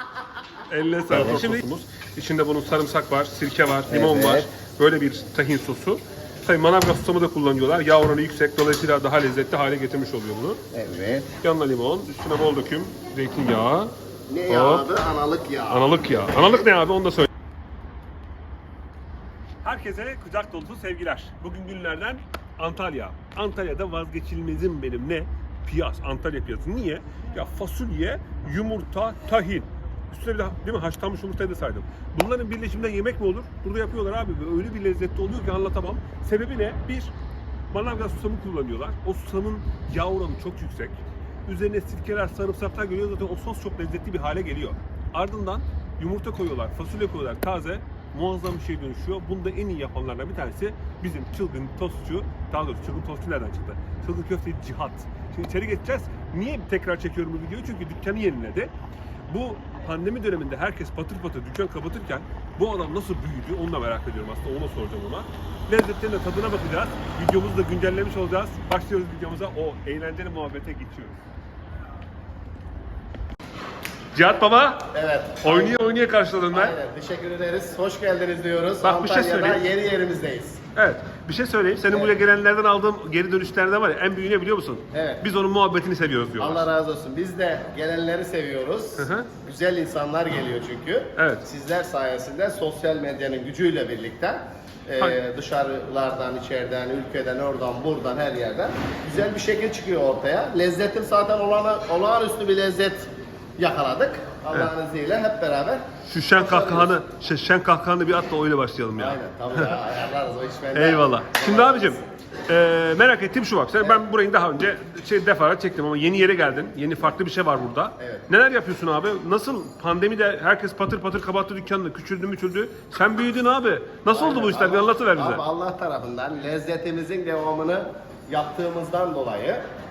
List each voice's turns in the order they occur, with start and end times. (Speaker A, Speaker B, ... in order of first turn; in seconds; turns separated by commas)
Speaker A: 0.7-10.6, Speaker B: 1.1-1.6, Speaker B: 3.9-4.5, Speaker B: 10.7-11.3, Speaker A: 11.4-13.9, Speaker B: 14.3-16.7, Speaker A: 14.5-14.9, Speaker A: 15.7-17.3, Speaker A: 19.6-37.1, Speaker A: 37.7-58.7, Speaker A: 59.3-71.2, Speaker A: 74.1-74.9, Speaker B: 74.9-75.8, Speaker A: 75.4-76.8, Speaker B: 76.5-80.6, Speaker A: 78.8-79.6, Speaker A: 80.8-86.7, Speaker B: 81.9-82.1, Speaker B: 84.9-85.2, Speaker B: 86.4-106.9, Speaker A: 89.0-89.3, Speaker A: 91.2-91.5, Speaker A: 106.0-109.7, Speaker B: 109.0-112.0, Speaker A: 110.7-125.4, Speaker B: 113.8-114.0, Speaker B: 118.0-118.2, Speaker B: 124.1-129.6